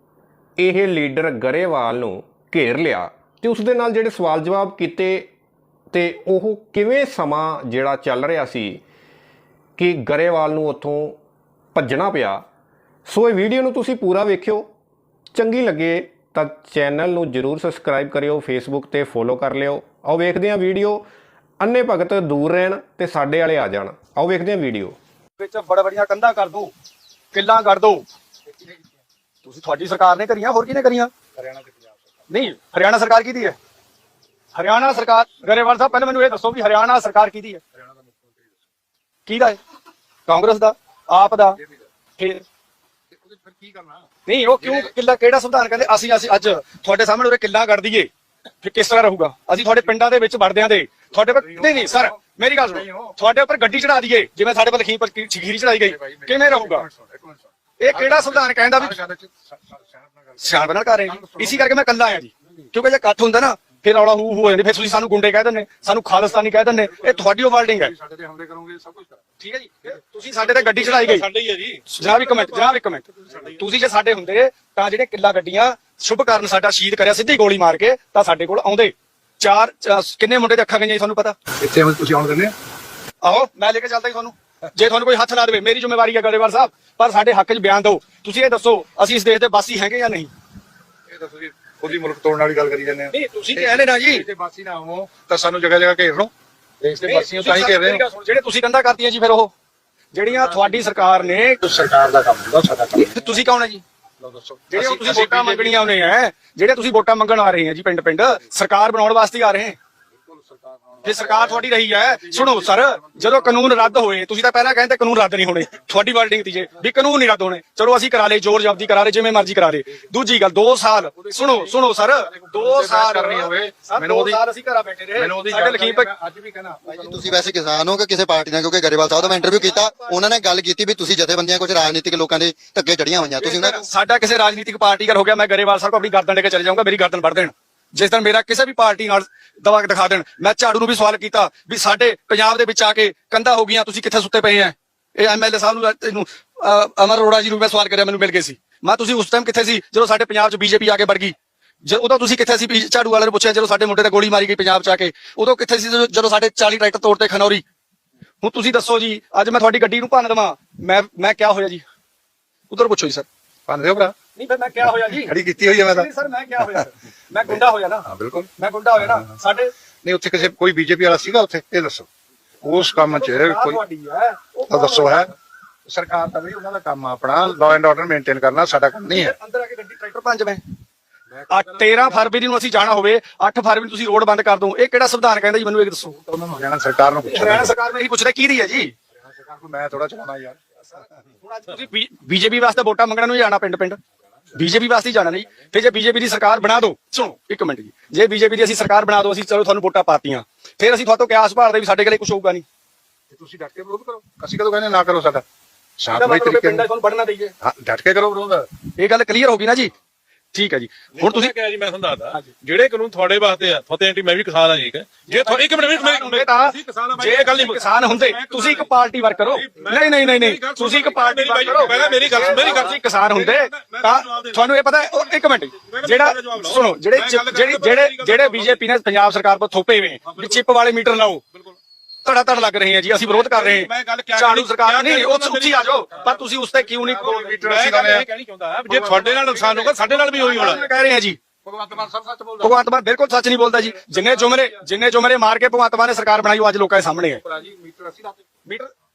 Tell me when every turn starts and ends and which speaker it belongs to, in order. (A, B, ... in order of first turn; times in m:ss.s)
0:00.6-0:05.3 A
0:05.9-0:08.8 A
0:09.8-0:11.2 A
0:11.7-0:12.4 A
0:13.1-0:14.7 A
0:15.3-0:21.0 A
0:21.6-0:25.0 A
0:25.4-0:26.7 B
0:27.3-0:28.0 B
0:29.4-0:31.1 B
0:31.4-0:31.9 C
0:32.3-0:33.6 B
0:34.5-0:37.6 B
0:38.0-0:38.5 C
0:39.2-0:39.6 B
0:40.3-0:41.6 B
0:43.1-0:44.0 C
0:44.2-0:48.1 B
0:48.6-0:56.8 B
0:51.5-0:52.1 C
0:52.7-0:53.1 C
0:56.0-1:00.6 C
0:57.8-0:59.0 B
1:00.4-1:07.9 B
1:01.1-1:01.7 C
1:07.0-1:07.2 C
1:07.8-1:09.2 C
1:09.4-1:11.2 B
1:10.5-1:12.8 D
1:11.9-1:21.4 B
1:21.6-1:22.5 C
1:23.2-1:30.3 B
1:31.1-1:38.0 C
1:33.1-1:34.2 B
1:37.1-1:39.5 B
1:40.1-1:41.6 B
1:41.6-1:43.3 C
1:43.0-1:43.8 B
1:44.2-1:45.9 C
1:44.7-1:49.8 B
1:50.3-1:51.4 C
1:51.0-2:06.1 B
1:52.4-1:53.0 C
2:02.4-2:04.4 C
2:05.2-2:07.8 C
2:06.9-2:13.8 E
2:09.2-2:10.2 B
2:13.4-2:37.6 B
2:38.4-2:41.8 B
2:42.7-2:43.2 B
2:43.7-2:44.1 C
2:44.4-2:48.0 B
2:45.1-2:46.1 C
2:48.1-2:48.5 C
2:48.6-2:49.7 B
2:50.0-2:52.1 C
2:52.6-2:53.8 C
2:53.1-2:55.2 B
2:54.7-2:55.3 C
2:55.9-2:59.3 C
2:59.1-3:00.6 B
3:01.3-3:02.2 C
3:01.5-3:06.1 B
3:06.2-3:07.7 C
3:07.3-3:08.9 B
3:09.2-3:10.6 C
3:11.4-3:14.0 B
3:14.6-3:22.6 B
3:23.3-3:25.4 C
3:26.0-3:26.8 C
3:26.1-3:27.5 B
3:27.6-3:28.7 C
3:29.0-3:29.9 B
3:30.5-3:31.5 B
3:31.2-3:38.9 D
3:35.3-3:51.4 B
3:39.5-3:44.6 D
3:45.8-3:48.8 D
3:50.3-3:50.6 D
3:52.2-3:57.7 B
3:53.2-3:56.4 D
3:57.0-4:00.8 D
3:57.2-3:58.3 C
3:58.9-3:59.7 C
4:00.2-4:01.4 B
4:01.6-4:02.7 C
4:02.6-4:07.4 B
4:07.5-4:08.3 C